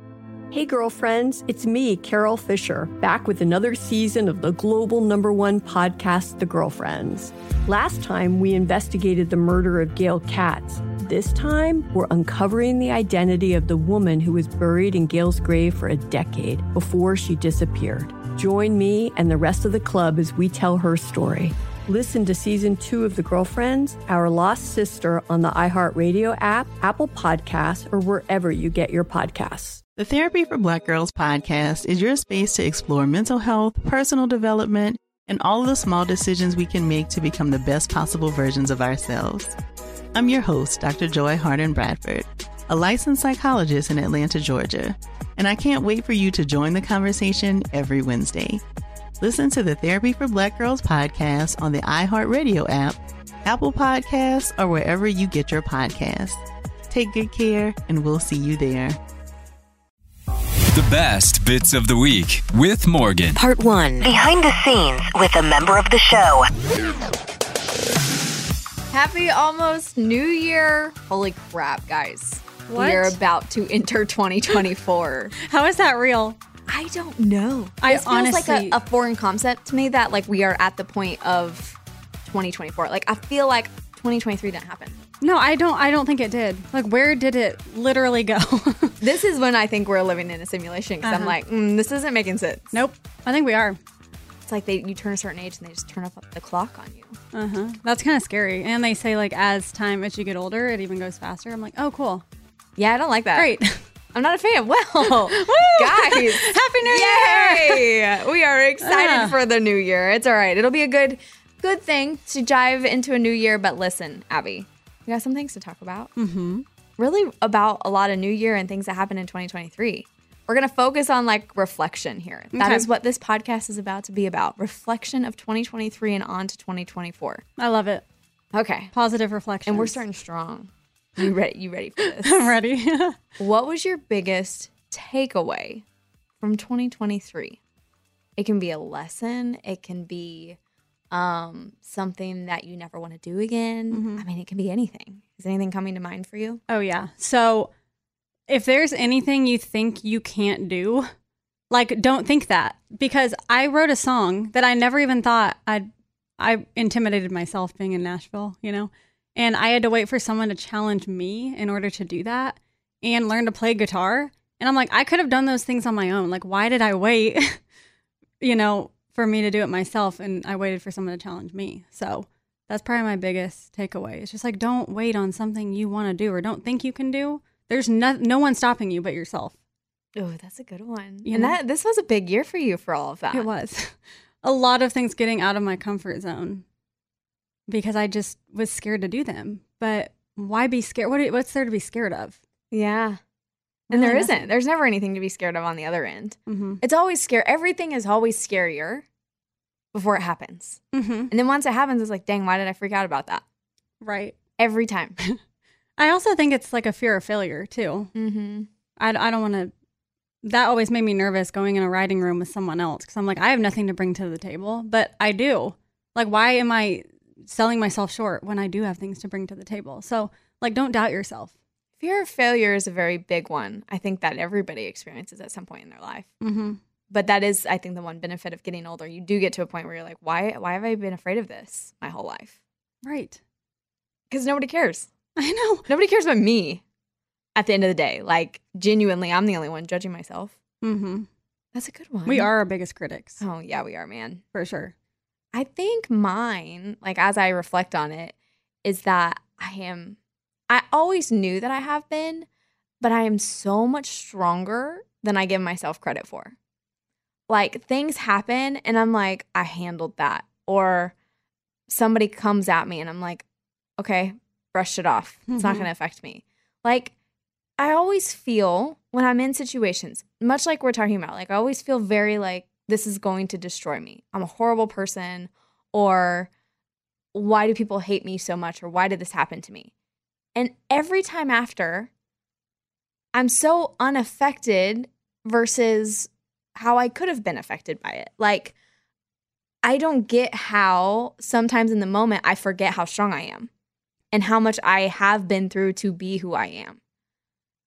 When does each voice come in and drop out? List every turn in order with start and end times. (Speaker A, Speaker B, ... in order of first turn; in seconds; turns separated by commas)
Speaker A: 0.5-29.8, Speaker B: 30.0-39.5, Speaker B: 40.1-48.6, Speaker B: 49.2-59.0, Speaker C: 60.7-63.4, Speaker D: 63.3-66.5, Speaker E: 68.9-75.3, Speaker F: 72.7-73.2, Speaker F: 75.4-76.4, Speaker E: 76.7-85.0, Speaker F: 77.8-78.8, Speaker F: 85.2-89.0, Speaker E: 89.0-92.7, Speaker F: 91.0-91.3, Speaker F: 92.7-93.8, Speaker E: 94.5-97.2, Speaker F: 97.3-102.2, Speaker E: 102.8-103.5, Speaker F: 103.3-103.8, Speaker E: 104.1-116.1, Speaker F: 105.0-107.8, Speaker F: 108.8-109.3, Speaker F: 116.2-116.6, Speaker E: 117.0-127.4, Speaker F: 122.5-122.9, Speaker F: 127.6-128.0, Speaker E: 128.5-128.9, Speaker F: 128.9-130.0, Speaker E: 129.7-132.5, Speaker F: 132.0-133.2, Speaker E: 133.4-135.8, Speaker E: 136.4-137.6, Speaker E: 138.4-140.6, Speaker E: 141.1-146.6, Speaker F: 143.9-144.2, Speaker F: 146.7-147.7, Speaker F: 148.5-151.1, Speaker F: 151.7-167.6, Speaker F: 168.4-179.5, Speaker E: 180.1-183.5, Speaker F: 181.2-181.6, Speaker F: 183.3-186.6, Speaker F: 187.7-192.3, Speaker E: 192.7-193.2, Speaker F: 193.9-194.5, Speaker E: 193.9-199.0, Speaker F: 196.5-196.8, Speaker E: 199.9-203.4, Speaker F: 200.9-201.3, Speaker F: 204.0-204.4, Speaker E: 204.6-205.2, Speaker F: 206.0-208.1, Speaker E: 208.1-208.7, Speaker F: 209.0-209.7, Speaker F: 210.4-221.5, Speaker E: 222.0-226.3, Speaker F: 226.4-226.8, Speaker E: 227.1-232.5, Speaker F: 233.0-233.4, Speaker E: 234.3-235.1, Speaker F: 235.4-235.8, Speaker E: 235.9-236.8, Speaker E: 237.6-240.5, Speaker F: 240.8-241.3, Speaker E: 241.7-242.5, Speaker F: 242.2-243.4, Speaker E: 243.4-244.4, Speaker F: 244.5-244.9, Speaker E: 245.5-250.2, Speaker E: 250.7-252.5, Speaker E: 253.0-256.5, Speaker E: 257.5-261.1, Speaker E: 261.9-263.4, Speaker E: 264.0-267.1, Speaker F: 265.5-265.9, Speaker E: 267.8-276.5, Speaker E: 277.3-279.9, Speaker E: 280.5-282.1, Speaker E: 283.3-288.7, Speaker E: 289.8-293.7, Speaker E: 294.3-297.0